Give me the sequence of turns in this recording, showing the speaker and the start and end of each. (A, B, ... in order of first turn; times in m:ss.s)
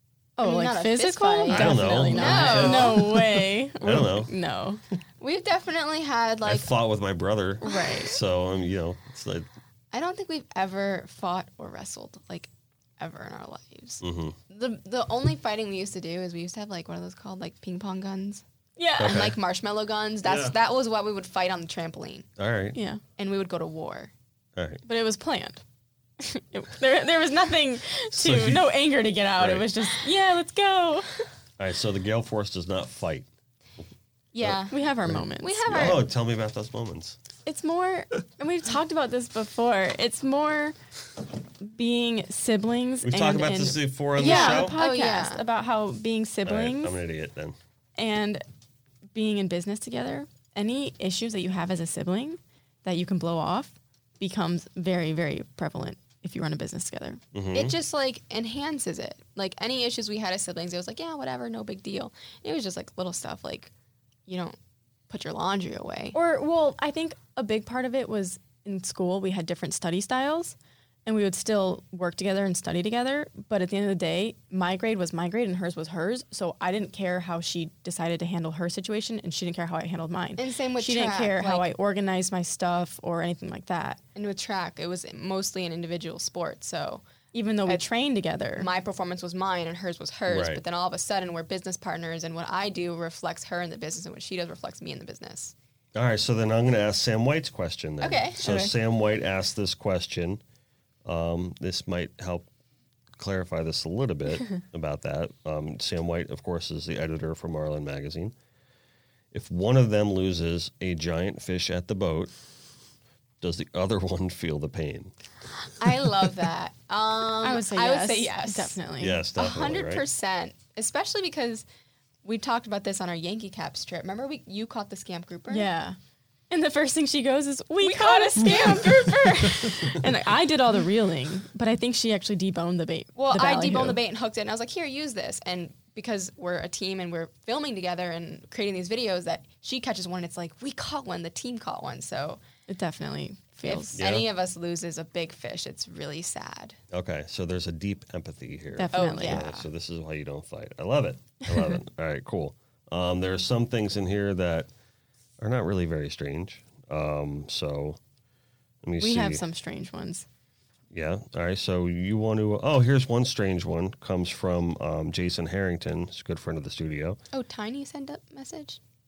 0:00.4-0:04.8 A
0:00.4-0:03.1 B
0:01.5-0:04.3 C
0:05.2-0:06.7 B
0:06.4-0:09.5 C
0:07.6-0:08.2 A
0:09.9-0:18.4 B
0:14.0-0:14.4 C
0:18.8-0:19.2 A
0:19.0-0:19.4 C
0:19.0-0:22.3 B
0:20.2-0:20.5 C
0:22.4-0:22.8 C
0:22.8-0:23.0 A
0:23.2-0:24.1 B
0:24.6-0:24.8 C
0:24.9-0:25.6 A
0:26.2-0:31.1 A
0:28.1-0:28.8 C
0:29.4-0:29.7 C
0:31.6-0:33.3 C
0:34.3-0:34.8 B
0:34.4-0:37.2 C
0:34.7-0:36.0 A
0:35.4-0:36.0 B
0:37.5-0:40.8 A
0:41.6-0:47.0 A
0:43.0-0:44.8 C
0:44.2-0:45.4 B
0:46.5-0:47.6 C
0:48.0-0:48.4 A
0:49.1-0:57.2 A
0:57.3-0:57.8 C
0:57.5-1:03.7 B
1:04.3-1:04.6 B
1:05.1-1:06.2 B
1:06.1-1:24.0 A
1:20.4-1:21.7 B
1:24.2-1:27.0 B
1:27.3-1:28.7 A
1:28.6-1:35.5 B
1:30.3-1:30.6 C
1:36.0-1:40.4 C
1:38.0-1:38.5 B
1:41.0-1:42.5 C
1:43.2-1:48.3 C
1:49.3-1:52.3 C
1:53.4-1:55.1 C
1:55.8-1:58.8 B
1:57.4-1:59.2 A
1:59.0-2:00.0 C
1:59.4-2:01.6 B
2:02.2-2:05.7 B
2:05.5-2:06.0 A
2:06.5-2:14.0 A
2:07.8-2:09.7 B
2:13.2-2:22.4 B
2:22.7-2:24.0 A
2:23.6-2:26.8 B
2:24.0-2:24.3 C
2:26.9-2:34.7 C
2:28.8-2:29.5 A
2:28.9-2:29.7 B
2:35.4-2:38.0 C
2:38.8-2:39.4 C
2:39.0-2:40.3 A
2:40.9-2:47.2 C
2:47.3-2:48.8 B